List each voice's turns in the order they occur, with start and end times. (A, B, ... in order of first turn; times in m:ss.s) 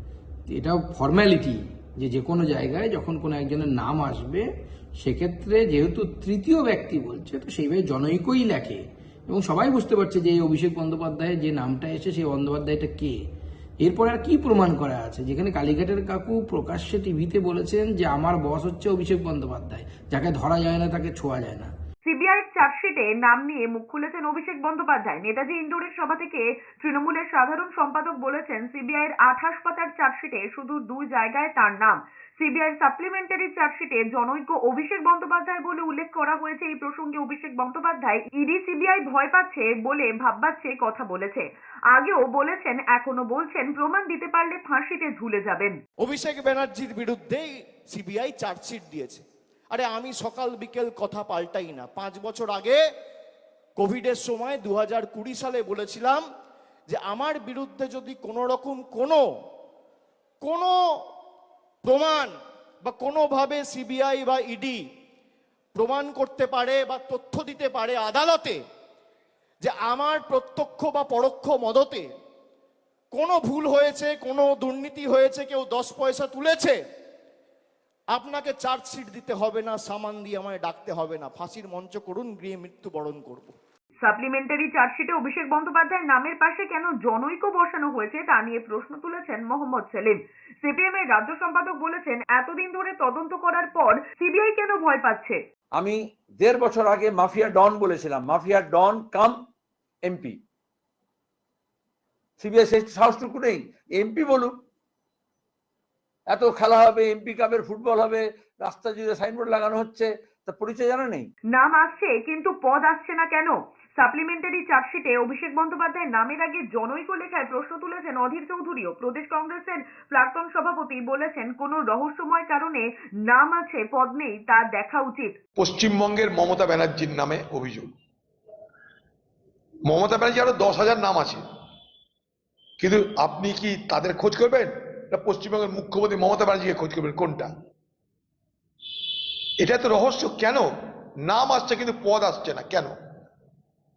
0:00.5-0:04.5 A
0:05.0-0:13.2 A
0:13.8-0:21.7 A
0:22.0-0:45.8 B
0:46.0-0:52.8 C
0:53.8-0:56.2 C
0:56.9-0:59.2 C
1:00.4-1:00.7 C
1:01.8-1:04.8 C
1:05.8-1:08.6 C
1:09.6-1:12.1 C
1:13.1-1:16.8 C
1:18.1-1:23.5 C
1:24.0-1:35.4 B
1:35.8-1:39.4 D
1:40.0-1:40.4 D
1:42.4-1:44.6 D
1:46.3-1:51.3 D
1:51.5-2:05.3 B
2:05.6-2:07.9 E
2:09.9-2:11.4 E
2:12.8-2:17.5 E
2:19.6-2:20.7 E
2:21.2-2:22.9 E